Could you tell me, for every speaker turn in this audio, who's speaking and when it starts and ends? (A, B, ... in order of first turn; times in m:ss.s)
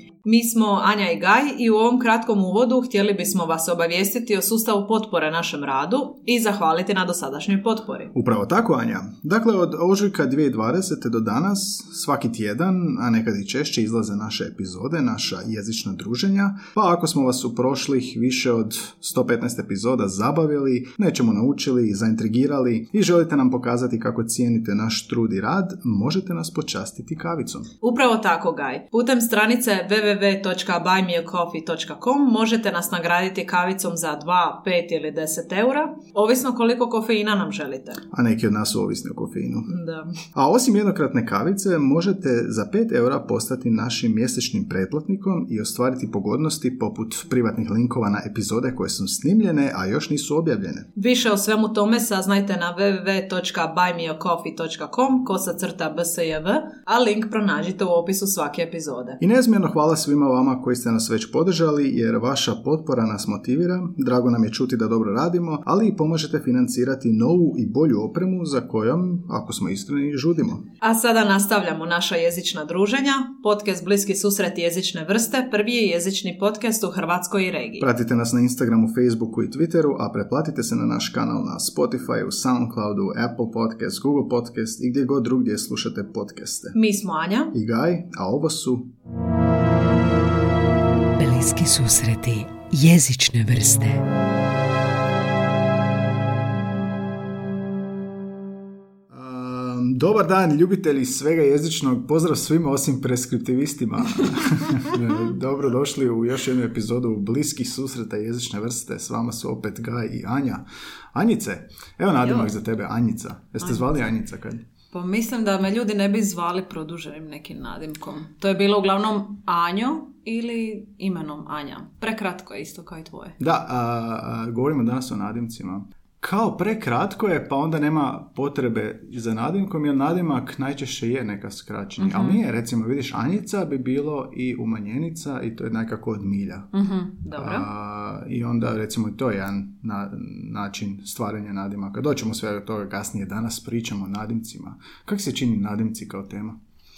0:00.2-0:08.1 A
0:08.1-0:27.7 B
0:27.8-0:38.0 A
0:38.1-0:39.7 B
0:39.7-0:40.1 A
0:40.3-0:50.9 B
0:51.0-0:59.2 A
0:59.2-1:10.6 B
1:10.8-1:17.9 A
1:17.8-1:26.8 B
1:26.7-1:27.6 A
1:27.5-1:28.9 B
1:31.2-1:34.0 C
1:39.1-1:54.6 B
1:52.2-1:52.5 A
1:53.6-1:53.9 A
1:54.9-2:03.4 A
2:03.4-2:16.7 B
2:12.0-2:12.4 A
2:16.7-2:17.7 A
2:17.4-2:26.6 B